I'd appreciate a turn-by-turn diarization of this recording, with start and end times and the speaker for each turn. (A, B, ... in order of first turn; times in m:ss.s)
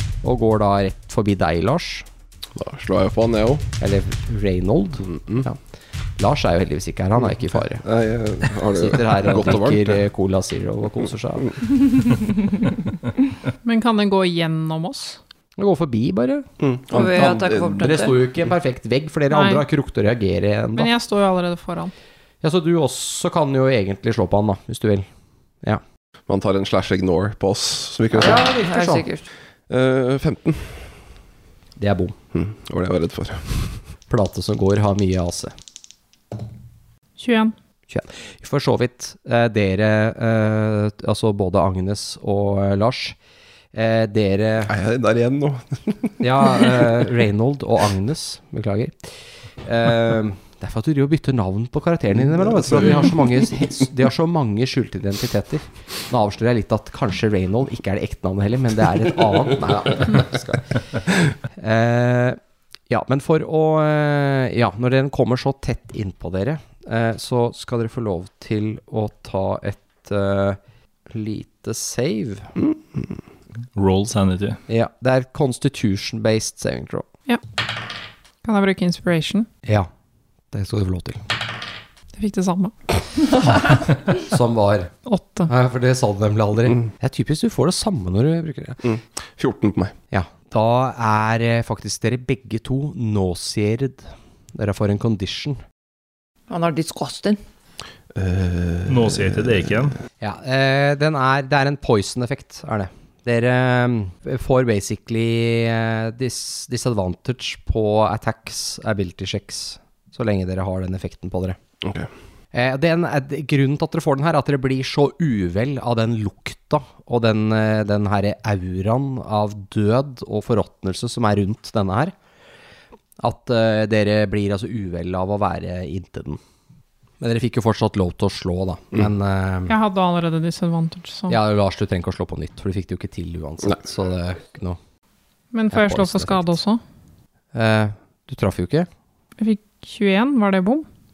0:00.2-0:02.1 A
0:02.5-0:03.7 B
0:03.8-0:05.6 A
0:05.1-0:05.5 B
0:06.2-0:07.8 A
0:07.8-0:10.0 B
0:08.5-0:11.6 A
0:13.6-0:15.2 C
0:15.6-0:20.9 A
0:16.6-0:17.9 B
0:16.9-0:18.2 D
0:19.3-0:19.7 C
0:20.8-0:21.9 C
0:22.4-0:25.1 A
0:26.3-0:28.5 B
0:28.1-0:29.1 A
0:28.2-0:29.3 D
0:29.7-0:31.0 B
0:31.8-0:32.2 A
0:32.3-0:33.8 B
0:34.1-0:35.5 A
0:37.2-0:37.5 C
0:37.9-0:43.2 A
0:43.7-0:44.7 A
0:44.7-0:47.0 B
0:46.2-1:00.8 A
0:52.3-0:53.6 B
1:01.5-1:02.4 A
1:02.9-1:10.6 A
1:11.1-1:12.5 A
1:13.8-1:14.6 E
1:14.7-1:17.1 A
1:18.4-1:19.5 C
1:20.5-1:21.2 A
1:22.1-1:22.7 C
1:24.2-1:24.9 A
1:25.1-1:25.5 C
1:25.5-1:28.8 A
1:28.8-1:30.0 B
1:30.1-1:35.6 A
1:36.5-1:37.4 D
1:38.1-1:39.7 B
1:38.9-1:40.0 E
1:40.2-1:51.6 A
1:51.8-1:52.1 B
1:52.5-2:02.1 A
2:03.2-2:06.4 A
2:07.2-2:09.8 A
2:09.7-2:11.4 C
2:11.3-2:14.8 A
2:15.5-2:16.8 C
2:15.7-2:16.6 A
2:17.5-2:18.9 A
2:19.4-2:20.9 C